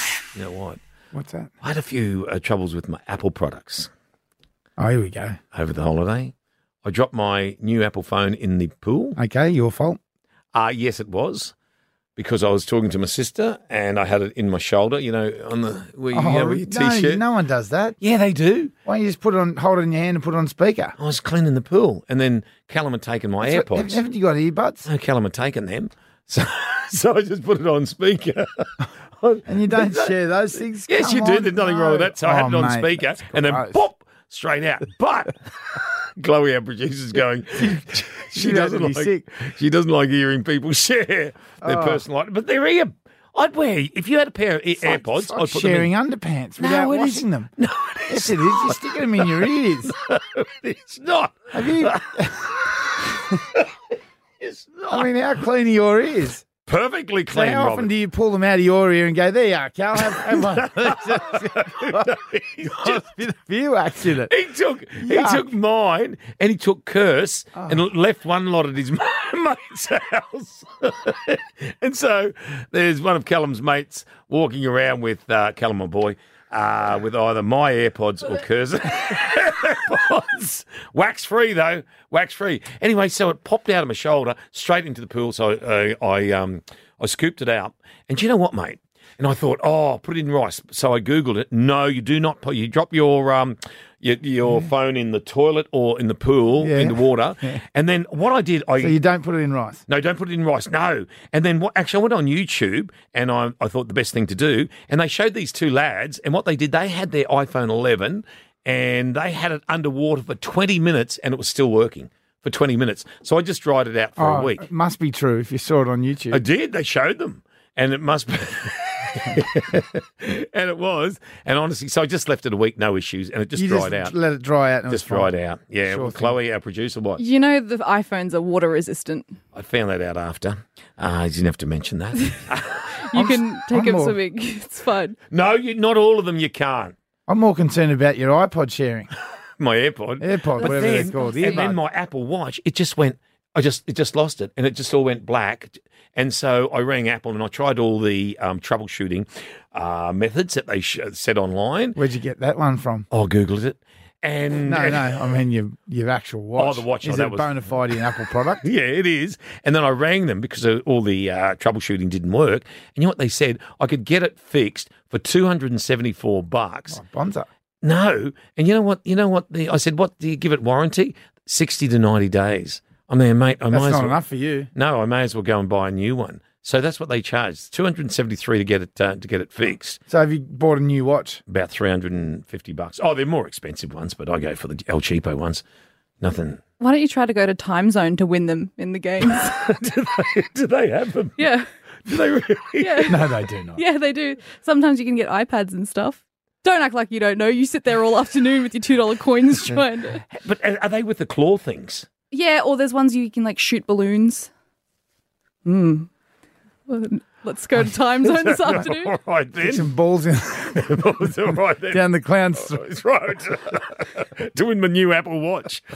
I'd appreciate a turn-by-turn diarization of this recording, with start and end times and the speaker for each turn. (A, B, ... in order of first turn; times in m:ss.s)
0:00.3-0:00.8 A
0:01.1-0:01.5 B
0:01.6-0:03.9 A
0:04.8-0:05.4 B
0:05.5-0:06.3 A
0:06.8-0:09.2 A
0:09.2-0:10.0 B
0:10.5-0:11.5 A
0:12.2-0:17.2 A
0:16.1-0:18.0 B
0:18.0-0:18.7 A
0:18.8-0:20.9 B
0:21.0-0:24.0 A
0:23.4-0:24.8 B
0:24.8-0:28.7 A
0:29.2-0:30.1 A
0:29.4-0:33.8 B
0:30.8-0:45.9 A
0:37.6-0:39.2 B
0:41.6-0:42.0 B
0:44.8-0:47.5 B
0:46.6-0:49.3 A
0:48.1-0:50.0 B
0:49.9-0:52.4 A
0:51.5-0:52.4 B
0:54.4-0:55.1 A
0:54.9-0:56.4 B
0:56.6-0:57.9 A
0:57.3-1:04.3 B
1:00.0-1:03.0 A
1:04.2-1:39.0 A
1:05.0-1:05.5 B
1:36.6-1:37.6 B
1:38.8-1:39.8 B
1:39.9-1:54.7 A
1:54.2-1:56.4 B
1:56.3-2:04.1 A
2:03.6-2:05.3 B
2:04.9-2:07.2 A
2:05.9-2:06.4 B
2:07.2-2:09.3 C
2:09.5-2:13.0 A
2:13.1-2:15.2 C
2:13.1-2:14.2 B
2:15.3-2:16.9 A
2:17.3-2:19.1 B
2:19.6-2:32.0 A
2:20.2-2:21.8 B
2:20.6-2:21.7 C
2:32.0-2:33.0 B
2:33.1-2:35.2 A
2:34.6-2:38.6 B
2:36.6-2:38.0 A
2:38.6-2:47.0 A
2:46.9-2:47.5 B
2:47.8-2:54.2 A
2:53.7-2:54.7 B
2:54.7-3:00.0 A
3:00.1-3:01.4 B
3:01.5-3:05.6 A
3:06.2-3:06.6 A
3:06.8-3:09.5 C
3:09.4-3:11.4 A
3:11.4-3:11.6 C
3:12.1-3:13.3 A
3:12.8-3:13.2 C
3:13.1-3:13.8 B
3:13.8-3:20.2 C
3:20.3-3:22.1 A
3:22.3-3:24.5 C
3:25.6-3:26.1 C
3:26.9-3:29.1 C
3:28.2-3:29.9 A
3:29.6-3:31.0 B
3:30.7-3:35.8 A
3:31.9-3:32.9 B